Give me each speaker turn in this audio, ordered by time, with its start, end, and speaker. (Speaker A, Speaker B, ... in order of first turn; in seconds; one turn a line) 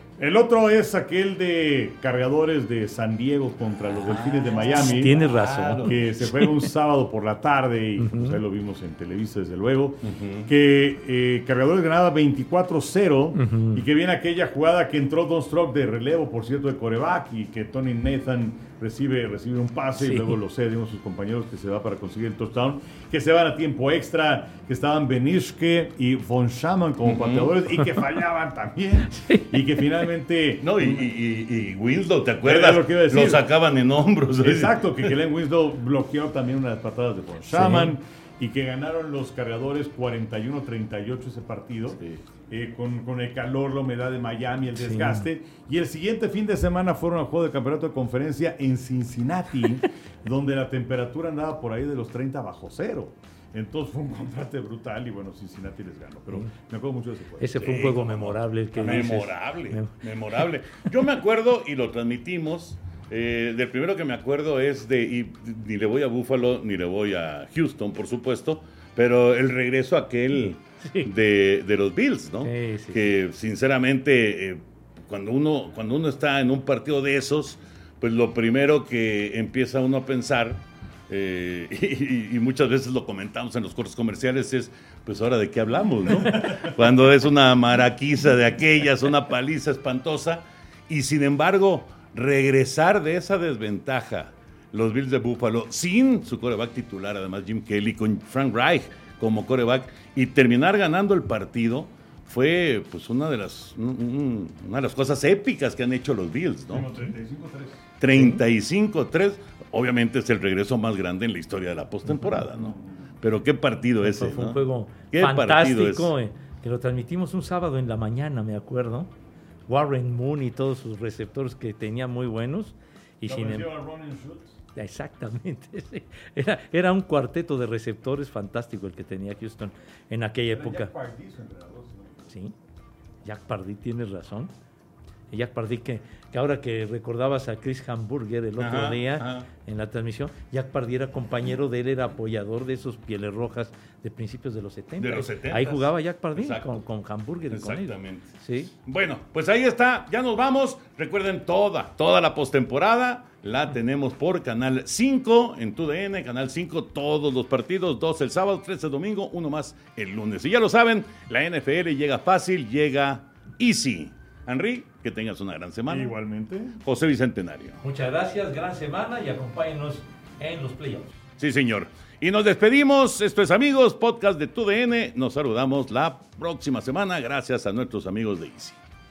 Speaker A: 0.2-5.2
Speaker B: 4.1-6.0
Speaker C: 4.6-6.5
Speaker A: 5.8-31.1
Speaker C: 8.0-8.4
Speaker B: 10.0-10.5
Speaker C: 13.3-13.8
Speaker C: 20.0-20.4
Speaker B: 27.1-27.6
Speaker C: 29.1-29.6
Speaker B: 30.6-35.1
Speaker A: 32.4-33.5
Speaker A: 34.4-57.5
Speaker C: 37.5-38.0
Speaker B: 41.9-42.2
Speaker C: 44.8-45.3
Speaker C: 57.4-59.9
Speaker B: 57.6-107.0
Speaker A: 58.8-59.1
Speaker C: 70.8-71.1
Speaker C: 72.4-73.1
Speaker A: 106.7-107.9
Speaker B: 108.0-116.1
Speaker C: 108.1-108.4
Speaker A: 112.6-113.1
Speaker C: 114.0-119.1
Speaker C: 119.7-123.7
Speaker A: 123.3-124.6
Speaker C: 124.8-130.9
Speaker A: 130.5-132.3
Speaker C: 132.3-132.6
Speaker C: 133.2-134.5
Speaker C: 135.3-148.7
Speaker B: 138.6-139.5
Speaker B: 145.0-146.8
Speaker B: 147.5-166.2
Speaker A: 165.9-166.8
Speaker B: 166.8-167.8
Speaker C: 167.8-171.2
Speaker B: 171.4-178.8